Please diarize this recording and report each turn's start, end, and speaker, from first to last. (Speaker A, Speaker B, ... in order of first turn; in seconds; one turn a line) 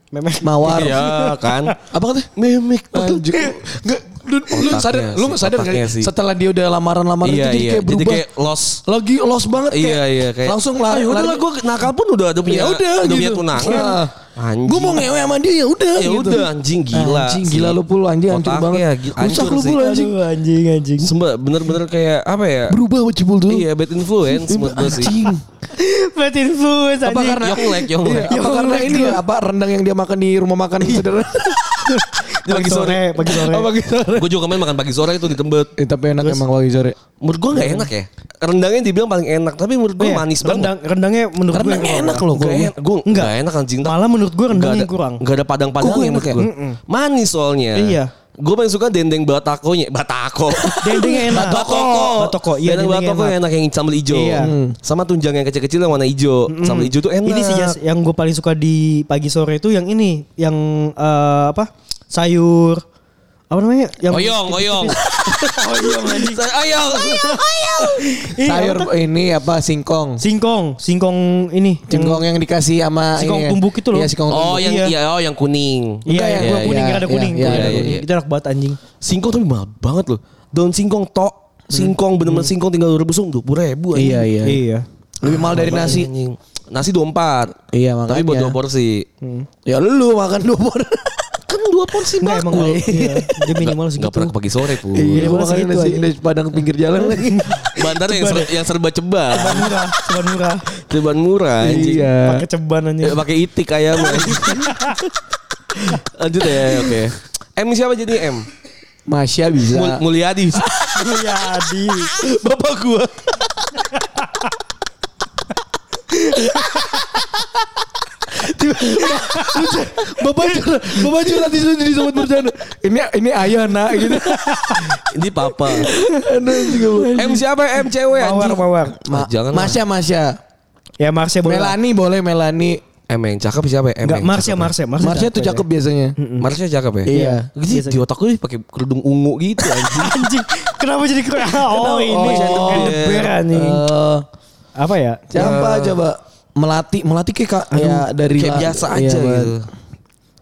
Speaker A: 0.1-1.8
Speaker B: 0.4-1.0
Speaker C: 0.7-1.7
Speaker B: 1.9-2.3
Speaker C: 2.4-3.4
Speaker B: 2.9-8.3
Speaker C: 4.5-6.1
Speaker C: 7.2-8.8
Speaker B: 8.9-11.4
Speaker C: 9.7-15.1
Speaker B: 12.4-14.1
Speaker B: 14.7-20.2
Speaker C: 15.9-19.8
Speaker A: 19.7-21.1
Speaker C: 21.0-22.8
Speaker B: 22.7-23.7
Speaker C: 23.5-25.1
Speaker B: 24.3-25.4
Speaker A: 25.7-29.2
Speaker B: 27.0-31.9
Speaker C: 27.4-28.3
Speaker A: 31.9-33.7
Speaker C: 32.5-33.2
Speaker B: 33.3-34.3
Speaker C: 34.1-35.7
Speaker B: 35.8-37.0
Speaker C: 37.2-40.7
Speaker A: 37.5-37.9
Speaker A: 40.0-42.2
Speaker B: 41.5-42.7
Speaker C: 42.3-44.0
Speaker A: 43.0-45.2
Speaker C: 44.5-57.8
Speaker B: 45.8-46.4
Speaker A: 46.4-46.8
Speaker A: 47.8-48.1
Speaker B: 50.6-51.8
Speaker A: 50.8-53.3
Speaker A: 54.1-54.5
Speaker B: 54.4-54.8
Speaker A: 56.5-62.8
Speaker A: 63.5-66.4
Speaker C: 64.1-68.0
Speaker A: 67.0-68.9
Speaker B: 68.4-70.2
Speaker A: 70.2-72.2
Speaker B: 71.9-74.7
Speaker A: 73.2-74.9
Speaker C: 74.3-76.8
Speaker A: 76.1-78.8
Speaker B: 76.1-78.0
Speaker C: 77.4-78.0
Speaker C: 79.0-84.3
Speaker A: 82.2-82.5
Speaker B: 83.9-84.6
Speaker A: 84.4-84.8
Speaker B: 85.2-86.1
Speaker C: 85.2-87.6
Speaker B: 87.7-88.6
Speaker C: 88.1-89.1
Speaker A: 89.2-89.5
Speaker B: 89.7-91.4
Speaker C: 91.5-95.4
Speaker A: 92.2-94.3
Speaker B: 94.9-97.5
Speaker A: 95.1-96.1
Speaker A: 97.0-98.5
Speaker C: 97.7-99.8
Speaker A: 99.3-100.7
Speaker C: 100.8-102.1
Speaker B: 101.7-102.4
Speaker A: 101.7-103.2
Speaker C: 103.0-104.7
Speaker A: 104.0-105.0
Speaker A: 105.9-106.8
Speaker C: 106.2-108.5
Speaker B: 109.1-110.0
Speaker C: 109.7-110.9
Speaker A: 111.0-112.1
Speaker C: 112.1-113.7
Speaker A: 116.1-117.0
Speaker A: 118.5-121.3
Speaker B: 118.5-124.9
Speaker A: 124.0-124.9
Speaker C: 125.0-125.9
Speaker B: 125.7-127.4
Speaker A: 126.0-126.9
Speaker C: 127.1-129.8
Speaker A: 128.1-129.0
Speaker B: 129.1-130.4
Speaker A: 131.0-131.8
Speaker B: 131.4-132.8
Speaker C: 133.1-134.7
Speaker A: 134.0-135.7
Speaker B: 135.0-136.2
Speaker A: 136.2-136.5
Speaker C: 136.4-140.3
Speaker B: 137.1-137.5
Speaker A: 137.1-138.0
Speaker A: 139.6-143.8
Speaker C: 141.7-143.4
Speaker B: 142.1-144.3
Speaker A: 144.8-145.6
Speaker B: 145.3-149.5
Speaker C: 145.4-146.0
Speaker A: 147.7-148.1
Speaker C: 148.3-149.7